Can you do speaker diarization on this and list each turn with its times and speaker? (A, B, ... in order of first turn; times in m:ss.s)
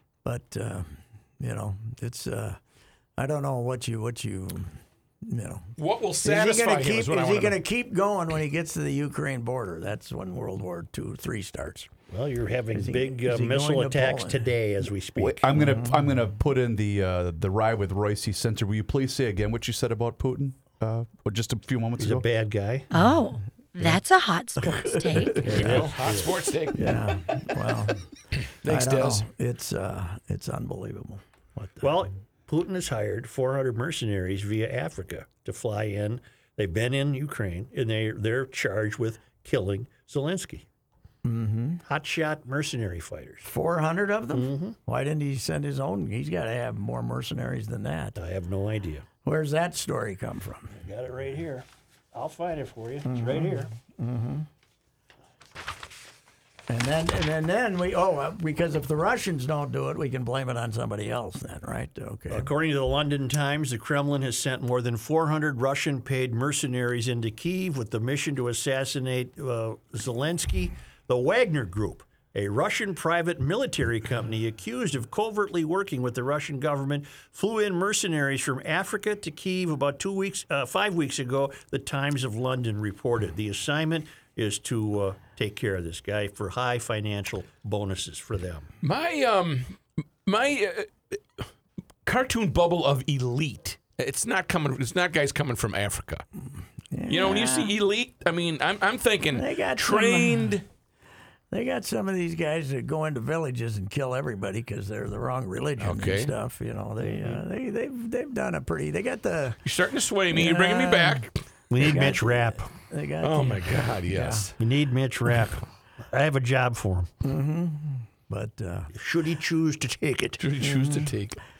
0:00.2-0:02.6 A
0:03.2-0:05.7 A
0:05.8-0:07.6 B
0:06.2-0:11.9 A
0:12.1-0:15.4 C
0:12.7-0:14.5 A
0:15.2-0:22.3 D
0:15.5-0:16.0 A
0:22.0-0:22.9 C
0:22.9-0:25.5 E
0:24.7-0:25.9 A
0:25.4-0:26.3 C
0:25.5-0:27.1 B
0:26.7-0:28.0 A
0:28.6-0:29.3 B
0:28.6-0:31.9 A
0:31.8-0:40.6 C
0:41.2-0:41.8 A
0:41.8-0:43.4 C
0:43.4-0:48.2 A
0:44.3-0:44.8 C
0:48.2-0:49.0 C
0:49.2-0:50.7 A
0:50.7-0:53.7 C
0:53.0-0:54.5 A
0:56.7-1:02.5 A
1:02.3-1:28.6 C
1:28.8-1:31.4 B
1:32.0-1:36.2 B
1:36.9-1:37.7 A
1:37.1-1:40.6 B
1:39.3-1:40.6 A
1:41.5-1:49.6 A
1:45.8-1:46.3 B
1:47.0-1:47.4 C
1:49.6-1:51.3 B
1:50.3-1:51.3 A
1:51.7-1:52.7 C
1:51.8-1:54.5 A
1:53.2-1:54.5 B
1:54.6-1:57.1 C
1:57.2-1:58.9 A
1:58.9-2:00.4 C
2:00.4-2:01.4 B
2:00.6-2:01.1 A